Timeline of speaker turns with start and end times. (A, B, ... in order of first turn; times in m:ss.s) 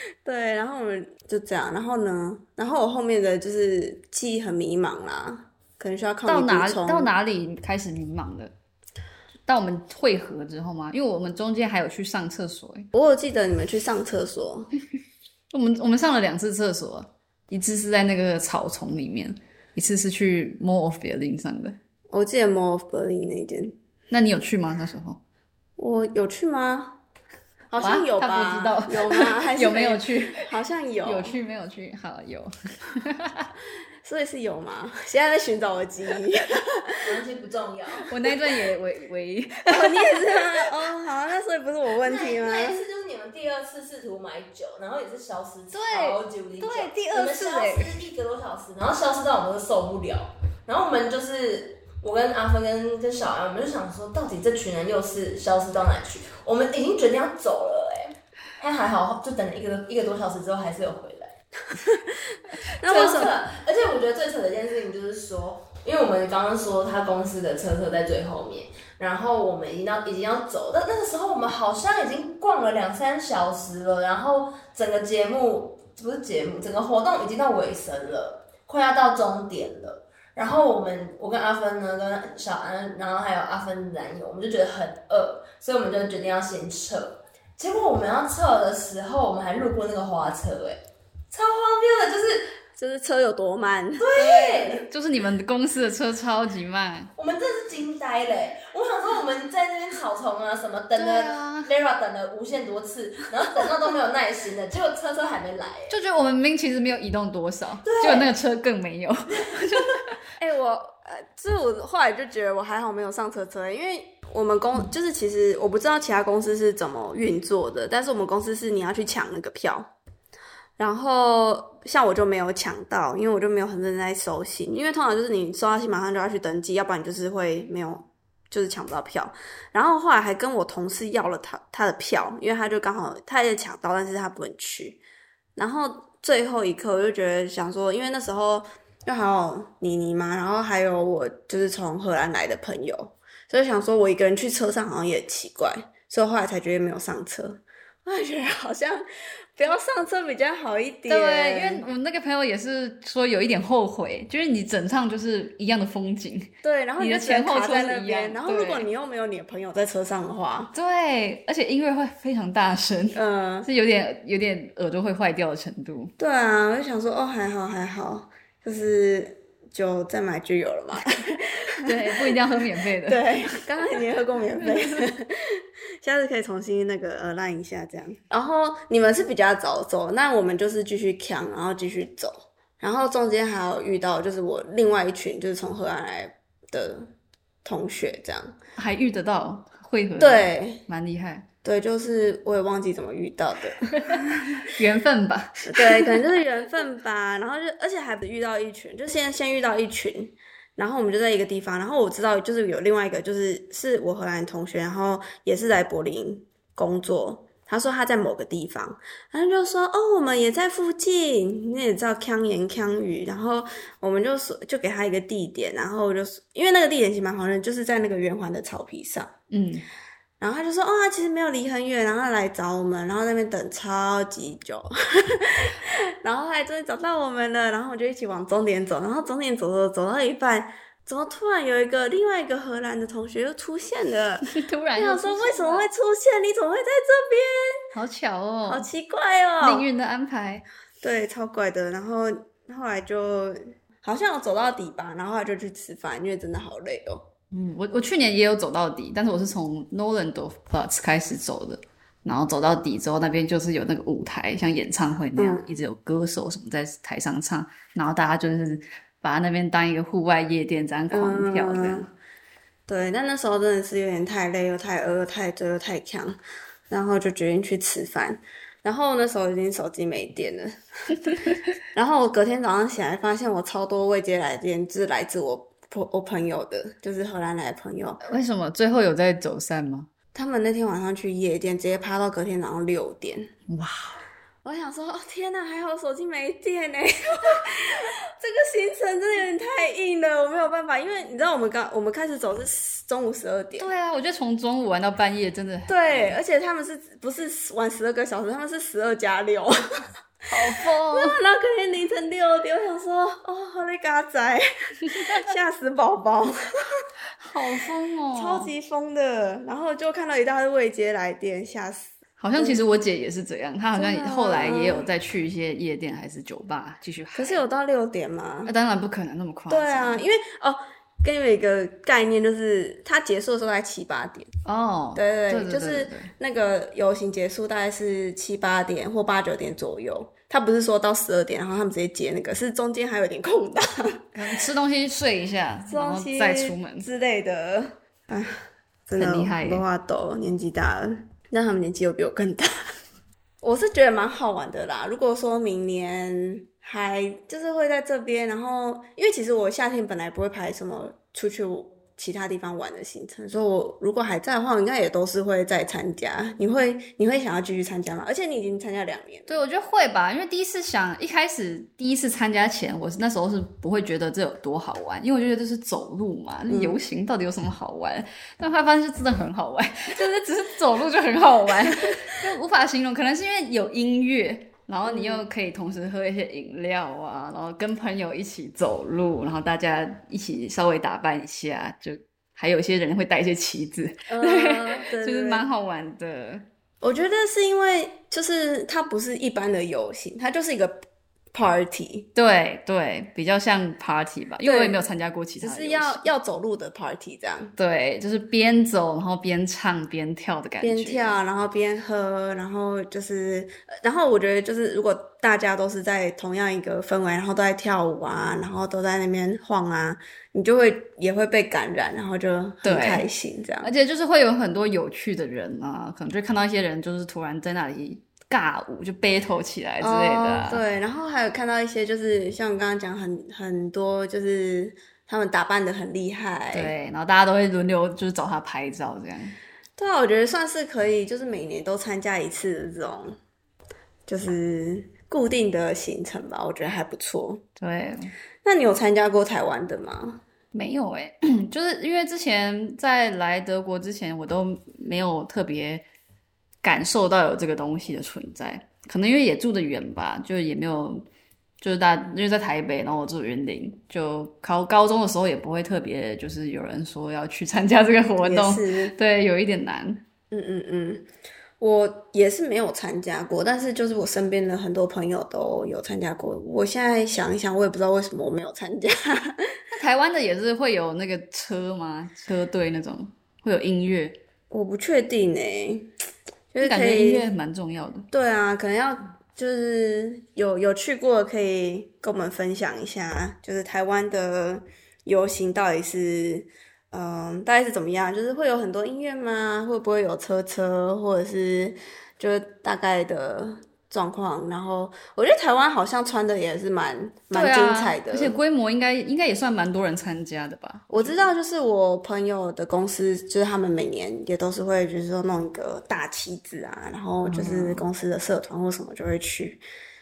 0:00.2-0:07.1 A
0:06.2-0:08.5 B
0:09.4-0:12.9 B
0:12.9-0:14.7 A
0:15.5-0:21.8 B
0:22.1-0:23.8 A
0:24.1-0:25.2 B
0:25.8-0:27.0 A
0:27.7-0:31.4 A
0:27.8-0:30.4 B
0:31.0-0:33.5 B
0:34.0-0:37.0 A
0:37.0-0:38.1 C
0:38.1-0:40.4 B
0:39.7-0:42.8 A
0:42.0-1:01.3 C
0:45.7-0:48.0 B
1:01.7-1:03.3 A
1:02.8-1:32.5 C
1:32.8-1:34.2 A
1:34.0-1:34.8 C
1:34.2-1:37.1 B
1:37.2-1:45.9 C
1:40.9-1:41.7 B
1:45.9-1:50.2 B
1:47.8-1:48.3 C
1:50.4-1:59.9 A
2:00.8-2:15.0 A
2:15.6-2:29.0 A
2:29.6-2:31.8 A
2:31.1-2:38.9 B
2:36.6-2:40.7 A
2:40.7-2:46.1 B
2:43.1-2:43.7 A
2:46.2-2:52.3 A
2:51.8-2:54.0 B
2:53.0-3:07.1 A
2:54.6-2:55.0 B
3:07.6-3:08.5 A
3:08.8-3:11.5 B
3:10.2-3:10.8 A
3:11.6-3:14.4 A
3:14.0-3:16.2 B
3:15.6-3:39.3 A
3:39.5-3:39.8 B
3:40.4-3:57.8 A
3:54.5-3:55.9 B
3:57.9-3:58.9 B
3:58.6-3:59.9 A
3:59.6-4:00.6 B
4:01.0-4:07.2 A
4:07.5-4:22.1 B
4:15.4-4:15.7 A
4:21.1-4:22.1 A
4:22.9-4:26.4 A
4:26.9-4:31.4 A
4:31.9-4:38.2 A
4:38.2-4:40.1 B
4:40.3-4:43.5 A
4:43.7-4:44.2 B
4:44.6-4:53.9 A
4:53.8-4:56.4 B
4:55.9-4:59.8 A
5:00.5-5:01.4 B
5:00.7-5:06.5 A
5:05.1-5:05.5 B
5:07.4-5:08.7 B
5:08.3-5:12.8 A
5:12.4-5:17.6 B
5:13.9-5:15.1 A
5:17.3-5:18.7 A
5:18.6-5:20.2 B
5:19.7-5:24.5 A
5:24.6-5:26.3 B
5:25.1-5:34.3 A
5:34.3-5:37.1 B
5:35.9-5:42.9 A
5:39.2-5:39.8 B
5:43.6-5:59.6 A
5:59.5-6:26.6 B
6:06.7-6:07.0 A
6:15.0-6:15.4 A
6:24.3-6:25.6 A
6:27.0-6:32.3 A
6:32.3-6:36.3 B
6:34.6-6:35.0 A
6:35.6-6:37.7 A
6:37.8-6:41.4 B
6:40.8-6:53.9 A
6:52.8-6:53.3 B
6:53.8-7:00.8 B
7:00.0-7:06.9 A
7:06.7-7:09.6 B
7:10.0-7:13.4 A
7:14.3-7:17.6 A
7:17.8-7:18.3 B
7:18.6-7:20.4 A
7:20.7-7:26.0 B
7:26.8-7:31.2 B
7:31.8-7:40.2 B
7:38.4-7:39.1 A
7:40.5-7:41.3 A
7:41.8-7:49.8 A
7:49.9-7:54.4 B
7:54.7-7:56.1 A
7:56.7-7:57.4 A
7:56.8-7:58.3 B
7:58.3-8:18.6 A
8:17.5-8:21.5 B
8:21.1-8:29.8 A
8:27.4-8:28.0 B